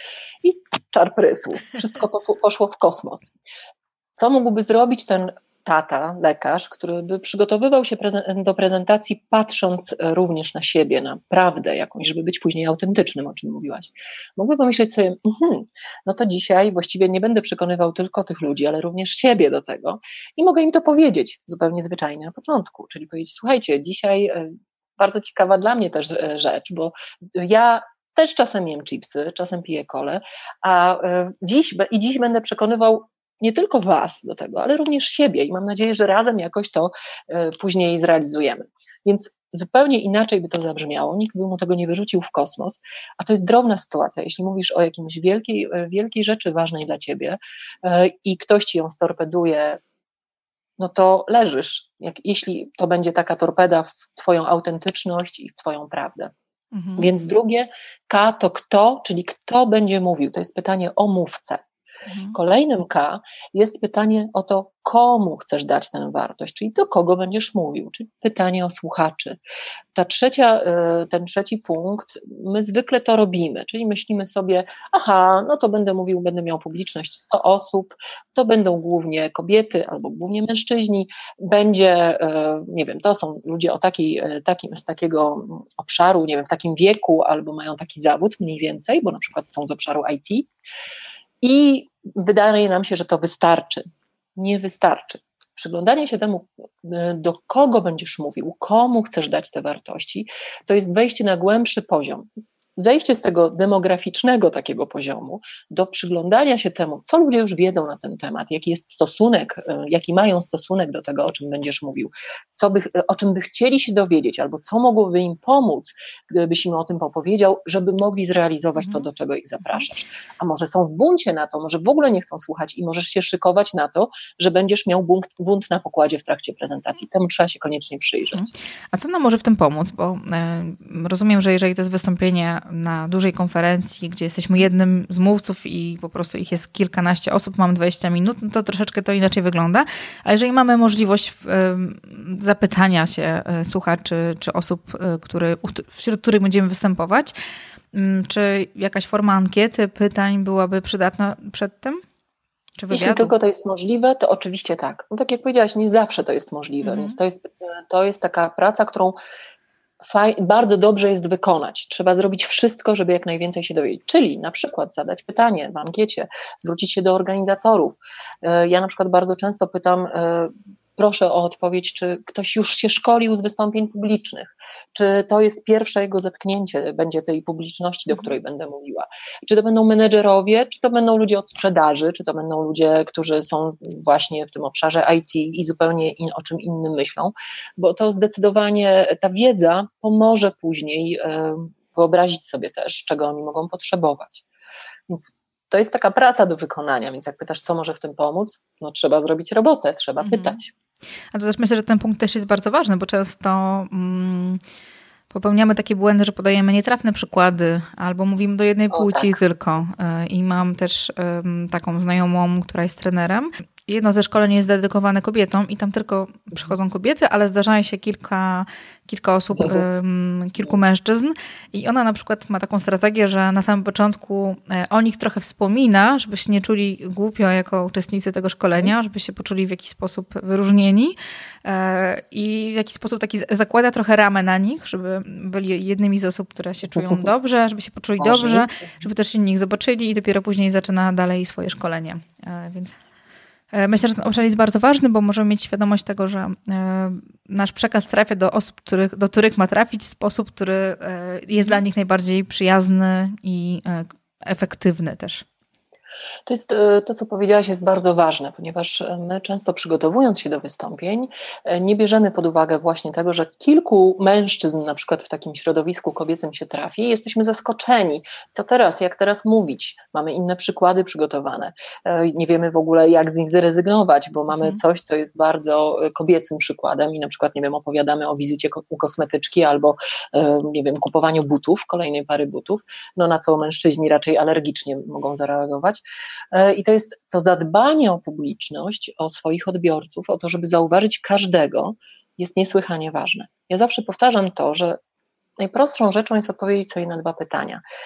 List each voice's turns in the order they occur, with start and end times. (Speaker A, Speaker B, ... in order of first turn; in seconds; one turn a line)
Speaker A: 0.4-3.3
Speaker A: 4.2-49.8
Speaker A: 50.8-56.3
Speaker B: 56.7-57.1
Speaker A: 57.0-61.6
Speaker B: 62.1-62.4
Speaker A: 62.3-69.4
Speaker A: 69.9-90.5
Speaker A: 91.4-93.8
Speaker A: 94.3-128.5
Speaker B: 128.3-147.3
Speaker B: 147.9-152.0
Speaker B: 152.8-153.3
Speaker A: 152.9-159.2
Speaker B: 156.8-157.2
Speaker A: 160.0-194.4
Speaker A: 195.1-200.7
Speaker B: 200.2-200.6
Speaker B: 201.3-204.6
Speaker B: 205.3-242.9
Speaker A: 208.9-209.3
Speaker A: 237.0-237.2
Speaker A: 238.2-238.9
Speaker B: 243.7-255.4
Speaker A: 256.4-295.0
Speaker A: 295.6-297.8